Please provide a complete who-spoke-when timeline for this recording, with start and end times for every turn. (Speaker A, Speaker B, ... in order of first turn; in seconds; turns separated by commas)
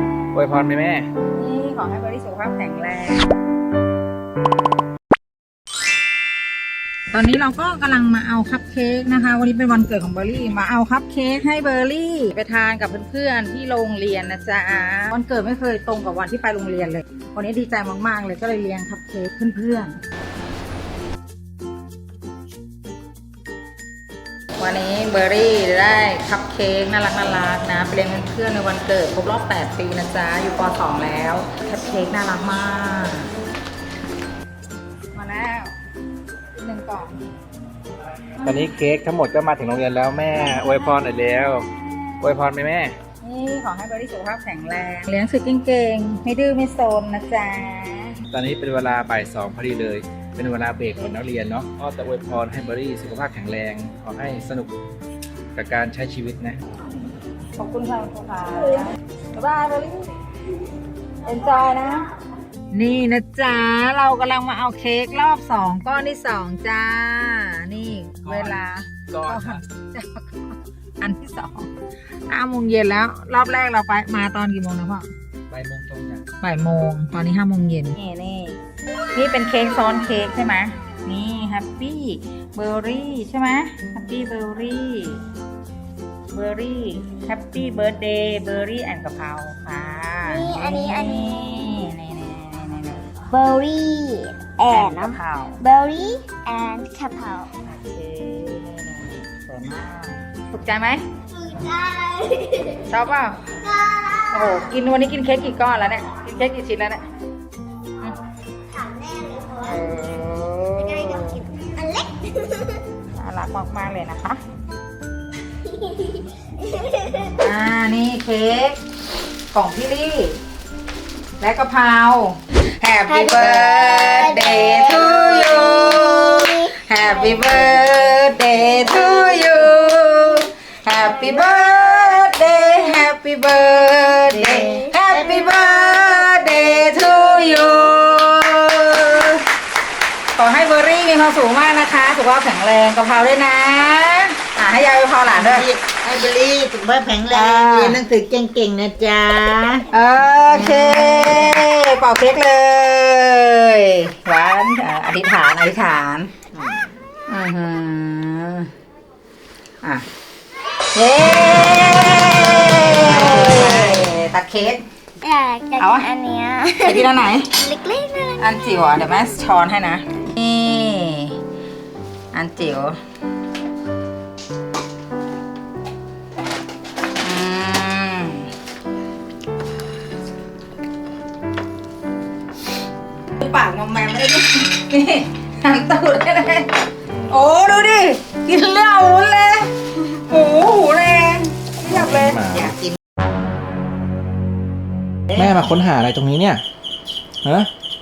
Speaker A: 0.3-1.1, Speaker B: 1.3-3.3, Speaker B: 7.1-20.0, Speaker B: 24.6-33.3, Speaker B: 35.1-35.7, Speaker B: 36.6-37.2, Speaker A: 38.4-41.7, Speaker A: 42.2-42.9, Speaker B: 43.2-48.2, Speaker A: 48.3-54.8, Speaker A: 55.5-56.6, Speaker B: 57.6-60.1, Speaker B: 61.2-62.1, Speaker B: 62.7-71.7, Speaker A: 68.2-69.6, Speaker B: 72.3-75.1, Speaker A: 75.5-76.3, Speaker B: 76.4-78.6, Speaker B: 79.1-85.2, Speaker B: 86.3-93.1, Speaker C: 90.3-91.9, Speaker C: 93.3-97.5, Speaker B: 94.7-95.6, Speaker B: 97.7-101.0, Speaker C: 101.3-102.9, Speaker B: 102.9-103.4, Speaker C: 103.6-104.7, Speaker B: 104.3-107.1, Speaker C: 108.7-109.8, Speaker B: 109.6-111.4, Speaker C: 110.8-112.8, Speaker B: 113.1-114.4, Speaker C: 115.7-117.3, Speaker B: 117.4-118.8, Speaker B: 119.5-120.4, Speaker B: 121.4-139.4, Speaker C: 123.1-129.6, Speaker C: 130.9-133.0, Speaker C: 134.3-136.0, Speaker D: 134.5-134.8, Speaker B: 140.3-145.7, Speaker D: 145.3-149.8, Speaker B: 147.3-148.0, Speaker B: 149.9-156.3, Speaker B: 157.3-158.7, Speaker B: 160.9-164.8, Speaker C: 163.0-164.1, Speaker C: 165.2-168.4, Speaker B: 165.8-166.1, Speaker B: 166.8-167.5, Speaker B: 168.4-171.3, Speaker B: 172.3-173.0, Speaker B: 177.2-178.5, Speaker B: 183.4-192.4, Speaker A: 187.1-187.4, Speaker A: 191.8-192.8, Speaker A: 195.3-196.6, Speaker A: 197.4-197.7